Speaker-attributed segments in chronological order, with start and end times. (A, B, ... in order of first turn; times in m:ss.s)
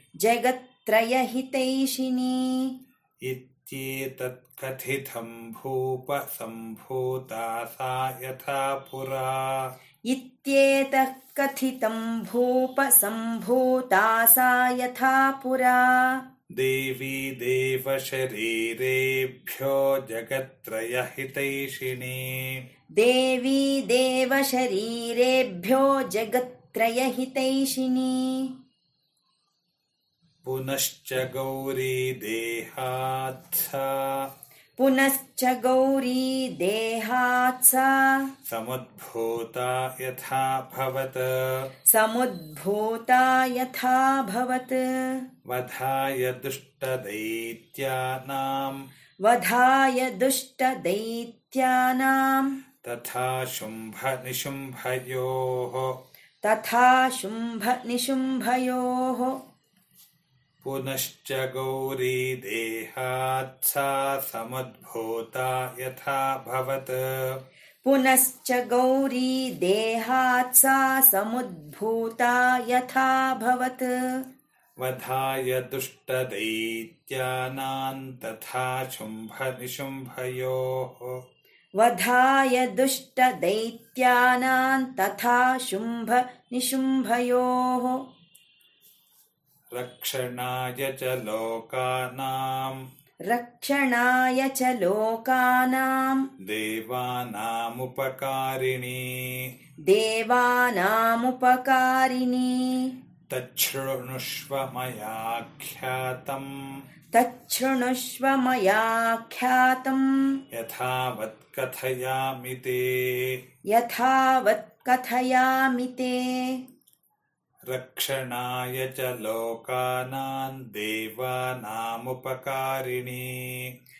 0:00.2-0:02.8 A
0:03.2-0:09.7 B
0:10.1-0:16.2 A
0:16.5-0:22.6 B
0:22.9-0:28.6 A
0:30.4-0:34.3 B
0:34.8-0:38.3 A
0:38.4-0:41.7 B
0:41.9-0:45.2 A
0:45.4-0:48.8 B
0:49.2-0:52.6 A
0:52.8-0:55.9 B
0:56.4-0:59.4 A
1:00.6-1:07.4 B
1:07.8-1:14.2 A
1:14.8-1:21.2 B
1:21.8-1:28.0 A
1:29.7-1:32.8 B
1:33.3-1:36.3 A
1:36.4-1:39.5 B
1:39.9-1:42.9 A
1:43.3-1:46.6 B
1:47.1-1:50.4 A
1:50.5-1:53.4 B
1:53.7-1:56.6 A
1:57.7-2:03.7 B